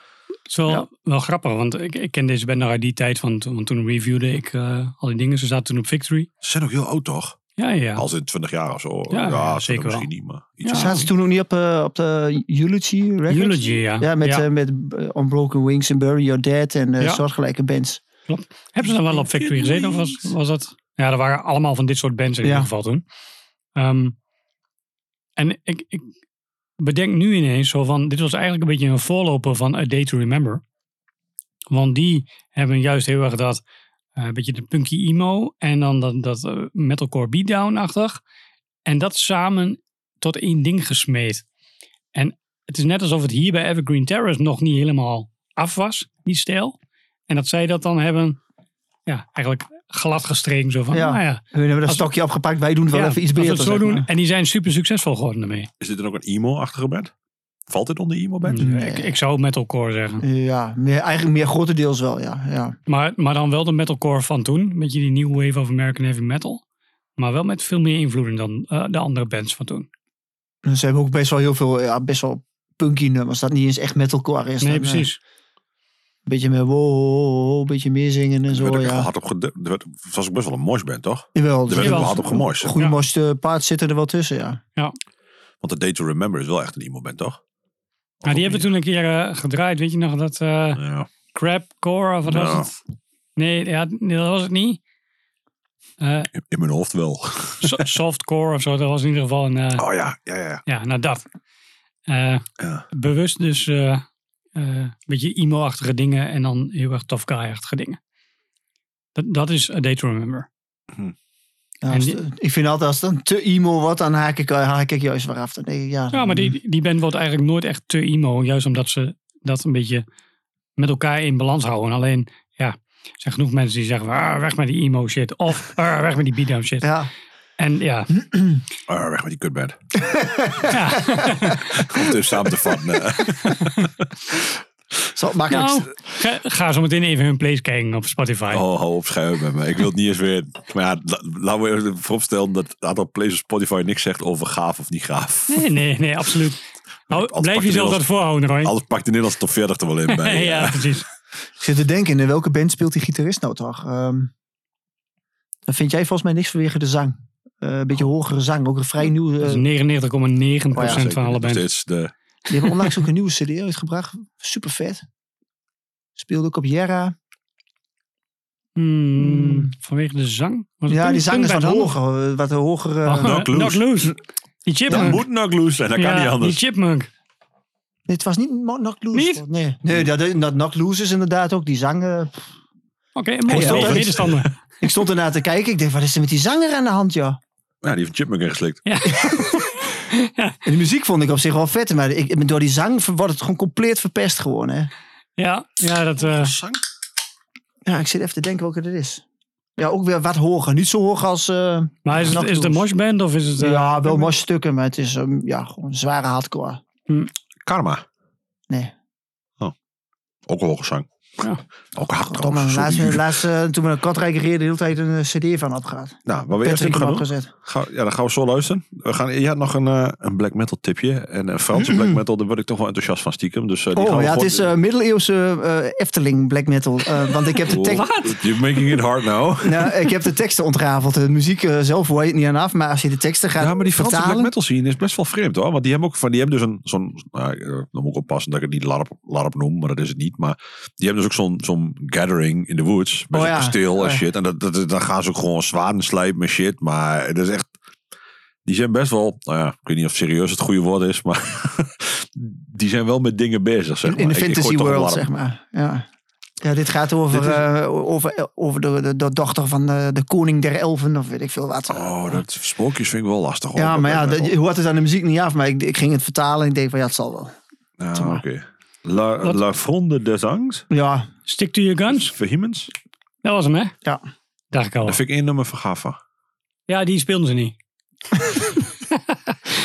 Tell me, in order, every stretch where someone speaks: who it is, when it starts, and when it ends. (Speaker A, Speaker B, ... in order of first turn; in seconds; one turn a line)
Speaker A: 0.5-6.3
Speaker B: 6.4-7.4
Speaker A: 7.6-8.1
Speaker B: 8.0-11.1
Speaker A: 9.1-10.1
Speaker A: 10.6-10.9
Speaker C: 10.7-18.0
Speaker A: 13.3-14.4
Speaker A: 18.3-23.0
Speaker B: 18.8-20.3
Speaker C: 22.4-22.7
Speaker A: 23.8-24.1
Speaker A: 25.4-26.1
Speaker A: 26.8-30.6
Speaker A: 31.7-33.6
Speaker A: 34.2-38.2
Speaker A: 38.9-41.4
Speaker A: 42.1-46.8
Speaker A: 47.3-48.4
Speaker A: 49.1-52.1
Speaker C: 50.9-54.1
Speaker A: 52.9-55.7
Speaker B: 55.8-57.1
Speaker B: 57.7-58.7
Speaker A: 58.5-60.2
Speaker C: 58.6-59.1
Speaker C: 60.2-62.8
Speaker A: 62.9-66.6
Speaker A: 67.2-69.9
Speaker C: 70.7-75.1
Speaker A: 74.6-75.2
Speaker C: 76.3-79.1
Speaker B: 78.5-82.8
Speaker C: 81.3-84.6
Speaker A: 81.8-82.2
Speaker B: 85.6-87.4
Speaker B: 88.2-88.7
Speaker A: 88.2-90.8
Speaker B: 90.8-91.1
Speaker A: 91.3-92.8
Speaker B: 92.2-92.7
Speaker A: 93.4-94.8
Speaker A: 96.0-96.3
Speaker B: 96.3-97.9
Speaker A: 97.6-99.8
Speaker B: 99.8-100.6
Speaker A: 100.7-101.2
Speaker A: 102.1-104.0
Speaker A: 104.5-108.0
Speaker A: 109.2-110.5
Speaker C: 111.8-116.5
Speaker A: 111.9-112.2
Speaker A: 116.1-120.0
Speaker A: 120.8-126.9
Speaker C: 126.8-127.1
Speaker A: 127.6-128.1
Speaker C: 128.2-128.6
Speaker B: 128.9-129.8
Speaker C: 130.1-131.3
Speaker A: 130.7-131.7
Speaker B: 131.6-134.1
Speaker A: 133.4-133.8
Speaker C: 135.2-135.9
Speaker A: 135.5-138.6
Speaker B: 138.5-145.7
Speaker A: 145.5-148.7
Speaker B: 147.1-148.1
Speaker B: 148.6-151.0
Speaker A: 150.1-151.1
Speaker C: 151.6-154.3
Speaker C: 155.7-159.6
Speaker A: 159.4-161.7
Speaker B: 160.7-162.1
Speaker C: 160.8-161.0
Speaker C: 162.5-165.0
Speaker C: 166.2-167.2
Speaker A: 168.8-171.9
Speaker C: 169.2-169.7
Speaker C: 170.9-173.4
Speaker A: 173.1-175.2
Speaker B: 173.2-173.8
Speaker B: 174.9-176.6
Speaker A: 176.0-177.1
Speaker C: 178.1-182.4
Speaker A: 179.1-179.4
Speaker A: 183.2-184.5
Speaker C: 183.5-184.2
Speaker B: 183.5-184.5
Speaker C: 184.8-187.4
Speaker B: 187.8-188.9
Speaker A: 188.9-190.6
Speaker C: 190.7-194.9
Speaker A: 195.4-196.6
Speaker B: 196.2-196.8
Speaker C: 197.8-199.2
Speaker C: 199.8-202.8
Speaker A: 202.1-204.3
Speaker C: 203.6-206.8
Speaker B: 207.7-208.1
Speaker B: 210.5-211.1
Speaker B: 211.9-213.3
Speaker C: 212.3-217.5
Speaker B: 216.3-224.7
Speaker C: 223.9-228.1
Speaker B: 227.7-230.0
Speaker A: 227.8-229.0
Speaker C: 229.6-234.5
Speaker B: 233.6-247.7
Speaker C: 243.3-244.2
Speaker B: 248.7-255.3
Speaker C: 254.1-256.1
Speaker C: 256.6-262.4
Speaker B: 257.3-257.7
Speaker B: 261.9-264.5
Speaker C: 263.8-267.6
Speaker B: 268.0-270.9
Speaker C: 268.1-268.4
Speaker C: 270.9-271.3
Speaker A: 271.5-272.3
Speaker B: 272.1-272.9
Speaker A: 273.4-273.9
Speaker A: 274.7-275.2
Speaker B: 275.0-276.2
Speaker A: 276.9-277.8